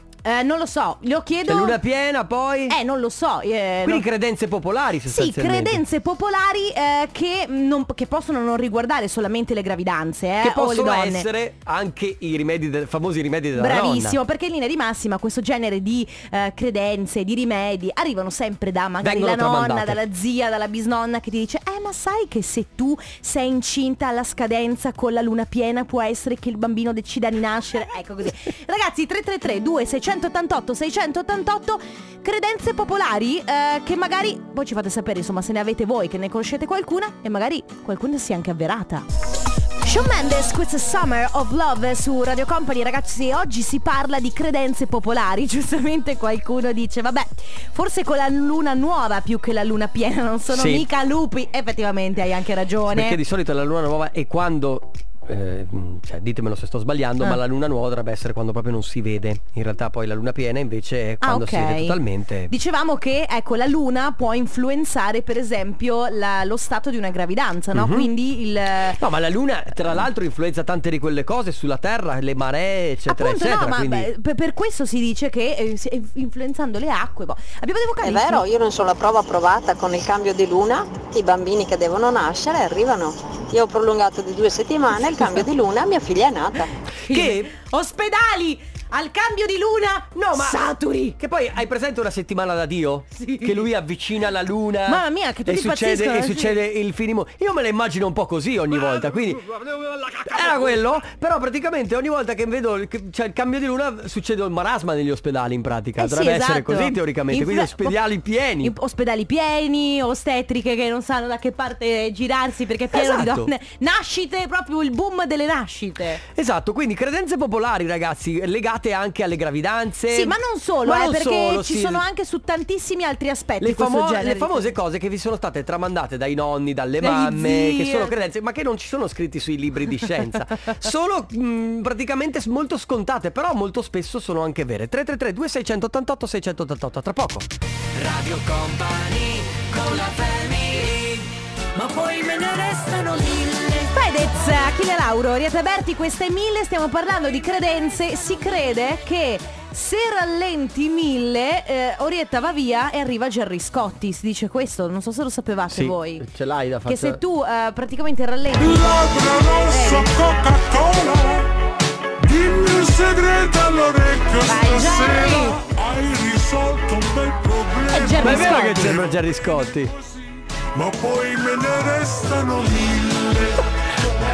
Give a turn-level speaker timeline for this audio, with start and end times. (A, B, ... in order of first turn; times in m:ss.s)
0:00.2-0:01.8 A
0:01.4-0:02.8 B
0:02.7-0:04.1 A
0:03.8-0:05.8 B
0:05.1-0:11.3 A
0:10.4-0:14.2 B
0:13.6-0:39.1 A
0:19.0-0:20.0 B
0:39.8-0:53.2 A
0:50.5-0:50.9 B
0:52.9-1:02.5 B
1:01.2-1:02.0 A
1:02.5-1:09.0 A
1:07.7-1:08.1 B
1:09.0-1:14.1 B
1:13.1-1:18.4 A
1:18.0-1:26.7 C
1:27.0-1:31.2 A
1:27.1-1:27.5 B
1:30.3-1:30.6 B
1:31.2-1:48.7 B
1:33.2-1:33.7 A
1:34.9-1:36.6 A
1:46.0-1:48.0 A
1:48.6-1:56.2 A
1:52.9-1:53.5 B
1:56.4-2:02.0 B
2:00.1-2:04.7 A
2:03.6-2:17.5 B
2:07.0-2:08.1 A
2:18.0-2:21.2 D
2:21.8-2:23.9 D
2:23.9-2:36.3 A
2:35.7-2:37.2 B
2:36.9-2:40.2 A
2:38.6-2:41.5 E
2:42.2-2:50.2 E
2:44.5-2:45.6 A
2:47.9-2:49.0 A
2:48.2-2:49.9 B
2:50.7-2:53.6 E